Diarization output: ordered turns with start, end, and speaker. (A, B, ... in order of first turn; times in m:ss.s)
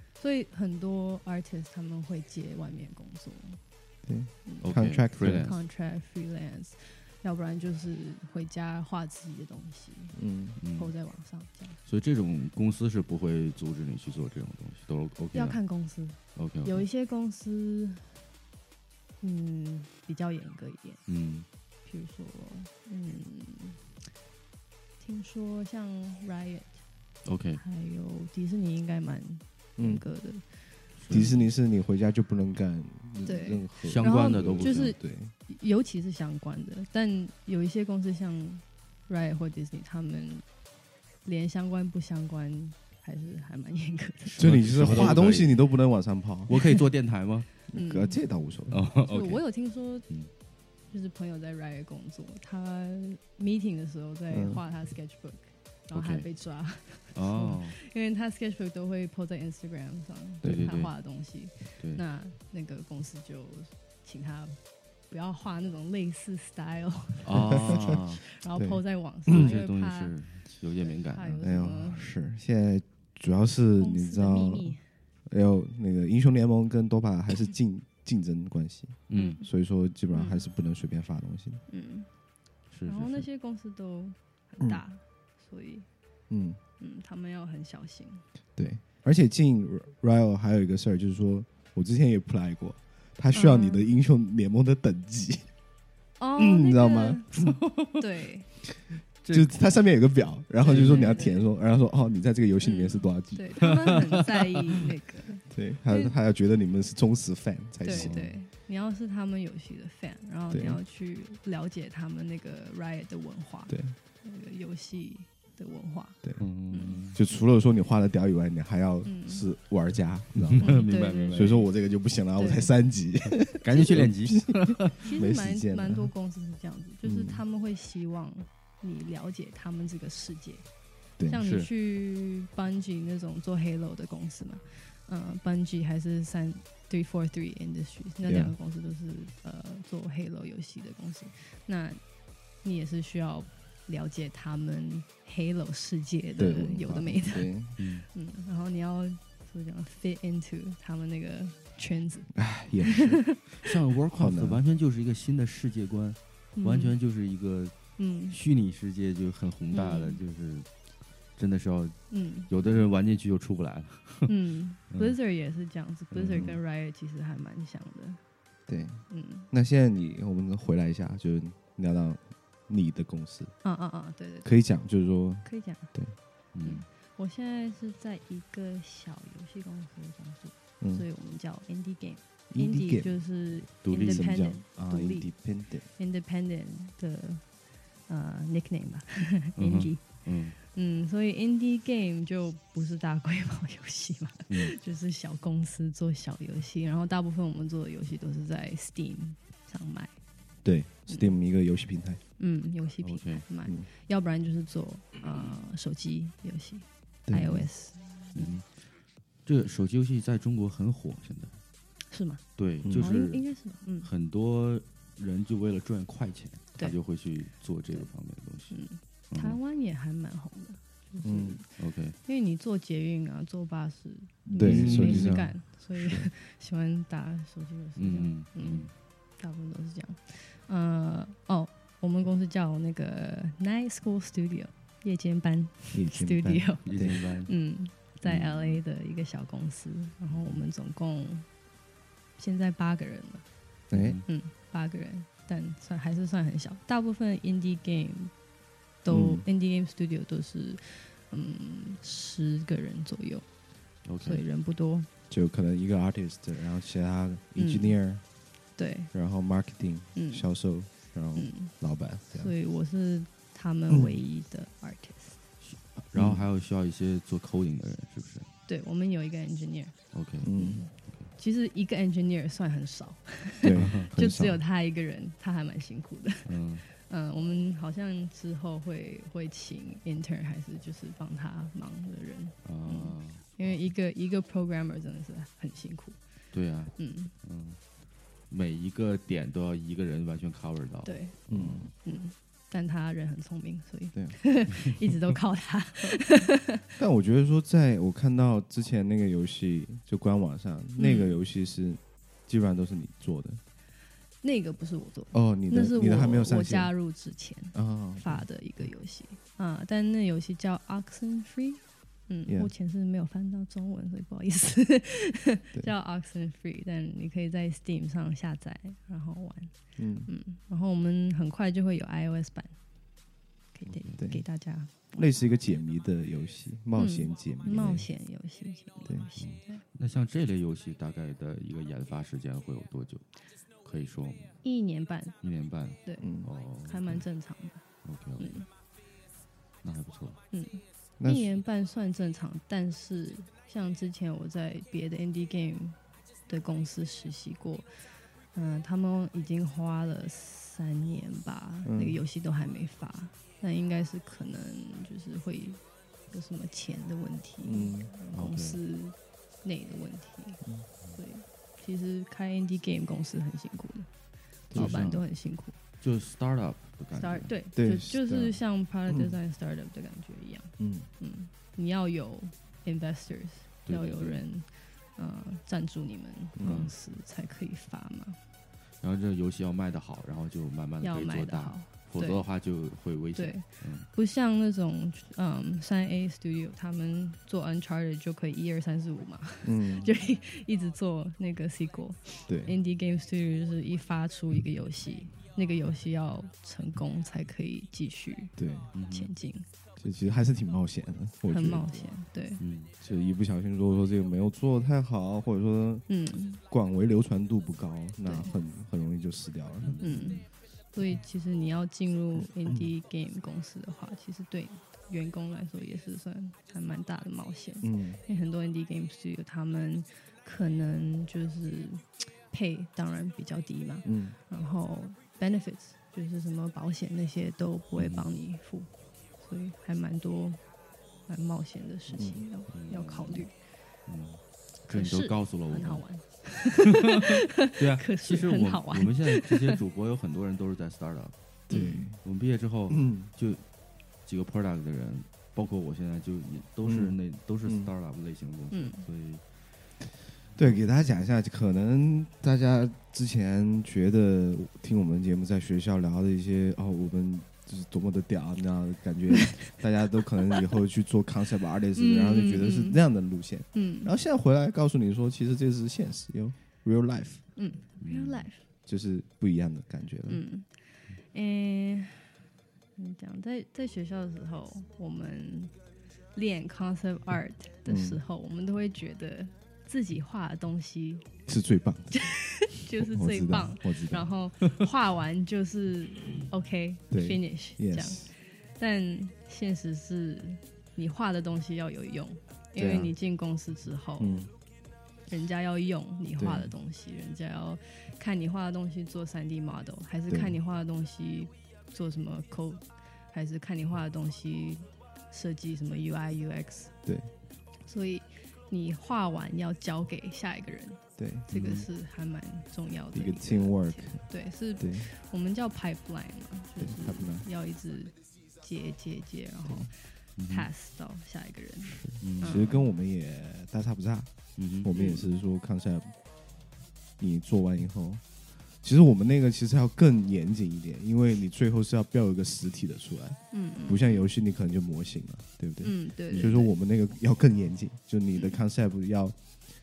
0:00.2-0:03.6 A
0:04.1-0:05.5 B
0:04.5-0:10.2 A
0:04.6-0:05.6 C
0:10.1-0:10.6 B
0:10.6-0:10.9 C
0:10.8-0:11.8 A
0:11.9-0:15.6 C
0:15.3-0:18.2 A
0:16.4-0:16.9 C
0:19.2-0:21.0 A
0:21.1-0:21.5 C
0:21.8-0:23.8 A
0:25.0-0:26.8 A
0:27.2-0:27.6 C
0:27.6-0:30.4 A
0:29.8-0:30.0 B
0:31.0-0:31.5 C
0:31.1-0:35.3 B
0:33.2-0:40.4 A
0:33.8-0:34.9 C
0:41.2-0:44.5 A
0:44.4-0:45.7 C
0:44.4-0:46.5 B
0:46.5-0:47.5 C
0:46.5-0:46.8 A
0:47.7-0:48.8 B
0:47.7-0:48.2 A
0:48.7-0:49.4 C
0:49.1-0:50.1 A
0:50.9-1:04.6 A
0:54.3-0:54.6 B
0:55.9-0:56.3 C
0:57.1-0:57.8 C
1:00.4-1:00.7 B
1:00.4-1:00.9 C
1:05.1-1:10.1 A
1:07.2-1:08.2 C
1:07.5-1:07.8 B
1:08.6-1:09.5 B
1:09.3-1:11.5 C
1:10.8-1:12.1 A
1:11.4-1:14.7 B
1:13.8-1:14.8 A
1:15.3-1:21.6 B
1:19.1-1:19.4 C
1:19.1-1:19.4 A
1:20.1-1:20.4 A
1:21.7-1:22.1 A
1:22.7-1:23.2 C
1:22.9-1:25.9 A
1:26.3-1:26.6 B
1:26.8-1:28.2 A
1:28.6-1:35.5 B
1:33.3-1:33.8 A
1:36.2-1:37.4 A
1:36.4-1:37.5 B
1:37.4-1:38.0 C
1:38.0-1:38.5 A
1:39.2-1:39.7 C
1:39.3-1:43.7 B
1:40.6-1:41.4 A
1:40.6-1:41.3 C
1:42.6-1:46.1 A
1:43.6-1:44.4 C
1:45.5-1:48.3 B
1:47.8-1:56.2 A
1:47.9-1:48.2 C
1:50.5-1:50.8 B
1:53.7-1:54.0 B
1:56.4-1:57.2 C
1:56.7-1:57.0 A
1:57.1-2:00.7 B
1:59.0-1:59.4 A
2:00.4-2:01.7 C
2:00.6-2:01.6 A
2:01.3-2:06.1 B
2:02.4-2:02.7 A
2:03.4-2:05.0 C
2:05.0-2:10.6 A
2:07.0-2:07.4 B
2:11.3-2:22.0 A
2:11.4-2:11.7 C
2:18.2-2:18.5 B
2:22.6-2:27.5 A
2:26.4-2:27.8 B
2:27.8-2:28.1 C
2:28.1-2:32.4 A
2:32.3-2:33.2 B
2:32.9-2:33.4 A
2:33.6-2:37.8 C
2:34.1-2:34.6 B
2:36.6-2:37.0 A
2:38.0-2:38.4 A
2:38.3-2:40.7 C
2:39.7-2:40.2 A
2:41.4-2:44.3 C
2:42.1-2:42.5 A
2:44.3-2:48.2 A
2:44.9-2:45.2 C
2:46.2-2:46.6 C
2:48.7-2:53.6 B
2:49.1-2:49.5 A
2:53.6-2:54.5 A
2:54.4-2:56.2 B
2:55.4-2:55.9 A
2:56.5-2:56.8 C
2:56.6-3:05.3 A
3:02.5-3:03.2 B
3:03.8-3:04.4 C
3:04.0-3:05.9 B
3:05.9-3:07.5 A
3:08.1-3:20.2 A
3:09.6-3:10.6 C
3:20.6-3:22.2 B
3:21.1-3:21.4 A
3:22.4-3:28.5 A
3:23.0-3:23.4 C
3:27.3-3:27.7 B
3:28.4-3:28.7 C
3:29.4-3:31.6 C
3:32.1-3:34.1 A
3:32.6-3:33.4 C
3:32.8-3:33.1 B
3:34.0-3:38.8 C
3:38.7-4:01.5 A
3:39.3-3:39.6 C
3:41.2-3:41.6 B
3:41.8-3:42.2 C
3:44.5-3:45.4 C
3:44.6-3:46.3 B
3:48.0-3:48.9 C
3:55.9-3:57.2 B
3:56.8-3:57.5 C
3:58.3-3:58.8 C
4:00.3-4:00.6 C
4:02.4-4:03.4 A
4:03.9-4:04.2 B
4:03.9-4:04.2 C
4:04.3-4:08.3 A
4:09.0-4:13.5 A
4:09.1-4:09.4 B
4:14.0-4:14.4 C
4:14.2-4:15.1 A
4:15.3-4:18.2 B
4:17.6-4:18.0 A
4:18.8-4:19.1 A
4:19.1-4:22.5 B
4:20.2-4:20.5 A
4:21.4-4:21.7 A
4:22.3-4:25.4 A
4:23.9-4:24.2 B
4:25.6-4:28.5 C
4:26.2-4:26.5 B
4:28.7-4:30.0 A
4:30.1-4:30.5 C
4:30.4-4:30.8 B
4:30.5-4:46.2 A
4:31.0-4:31.3 C
4:33.6-4:34.6 B
4:33.8-4:34.1 C
4:36.5-4:36.9 C
4:42.6-4:43.4 C
4:46.5-4:47.8 C
4:47.0-4:47.3 A
4:48.5-4:51.9 C
4:51.0-4:51.4 A
4:51.5-4:51.9 B
4:52.0-4:56.8 A
4:57.0-5:03.6 B
5:01.0-5:01.4 A
5:04.4-5:19.8 A
5:05.3-5:06.9 B
5:07.7-5:08.4 B
5:12.5-5:12.7 B
5:20.0-5:20.3 B
5:20.3-5:22.8 A
5:23.8-5:25.2 A
5:24.2-5:24.4 B
5:25.1-5:28.1 B
5:27.0-5:29.8 A
5:29.4-5:33.2 C
5:33.8-5:34.6 C
5:34.6-5:35.4 A
5:35.4-5:37.2 C
5:36.2-5:36.5 B
5:36.8-5:37.8 A
5:38.0-5:38.6 C
5:38.4-5:38.7 A
5:39.8-5:40.4 C
5:40.5-6:00.6 A
5:41.2-5:41.6 B
5:51.8-5:52.2 B
5:57.6-5:58.1 B
5:58.3-5:58.8 C
6:01.1-6:04.1 A
6:04.7-6:05.0 B
6:04.7-6:05.8 A
6:04.7-6:05.2 C
6:06.0-6:07.5 C
6:07.1-6:18.4 A
6:07.8-6:09.4 B
6:10.8-6:11.1 B
6:13.9-6:14.4 C
6:16.6-6:16.9 B
6:16.6-6:16.9 C
6:19.0-6:24.1 C
6:21.0-6:22.4 A
6:23.4-6:38.6 A
6:29.6-6:30.1 B
6:32.5-6:32.7 B
6:38.6-6:38.9 B
6:38.9-6:39.3 C
6:39.1-6:39.7 A
6:40.0-6:42.1 B
6:41.5-6:42.6 A
6:42.6-6:42.9 C
6:43.0-6:46.1 B
6:46.1-6:46.6 A
6:46.7-6:50.0 B
6:48.2-6:48.5 A
6:49.8-6:50.5 C
6:50.0-7:10.6 A
6:57.8-6:58.2 B
7:04.0-7:04.4 B
7:08.0-7:08.3 C
7:11.3-7:13.5 A
7:12.1-7:12.4 B
7:12.7-7:13.5 C
7:14.0-7:16.0 C
7:14.9-7:19.8 A
7:17.0-7:21.3 C
7:21.7-7:22.2 B
7:21.7-7:22.1 A
7:22.2-7:23.6 C
7:22.9-7:23.3 B
7:24.2-7:29.4 C
7:26.8-7:27.9 B
7:28.7-7:29.1 A
7:30.6-7:47.4 B
7:42.0-7:43.0 A
7:43.7-7:44.1 A
7:47.6-7:48.6 A
7:48.0-7:48.5 C
7:48.9-7:50.4 B
7:50.3-7:52.4 A
7:53.0-7:55.7 A
7:56.3-8:01.3 A
7:57.9-7:58.2 B
8:01.5-8:02.3 B
8:02.2-8:14.4 A
8:03.0-8:04.3 B
8:07.1-8:08.3 B
8:12.8-8:13.1 B
8:14.2-8:14.5 B
8:15.3-8:26.9 A
8:16.4-8:16.7 B
8:20.3-8:20.6 B
8:27.0-8:27.3 B
8:27.9-8:42.9 A
8:31.2-8:31.5 B
8:31.5-8:31.9 C
8:33.1-8:34.2 B
8:34.8-8:35.1 B
8:36.8-8:37.5 B
8:40.4-8:40.7 C
8:41.8-8:44.3 B
8:42.2-8:42.7 C
8:44.6-8:44.9 C
8:44.8-8:46.2 B
8:44.9-8:45.3 A
8:47.2-8:48.2 B
8:48.8-8:59.4 B
8:53.5-8:54.2 A
8:55.8-8:56.7 A
8:58.4-8:58.6 A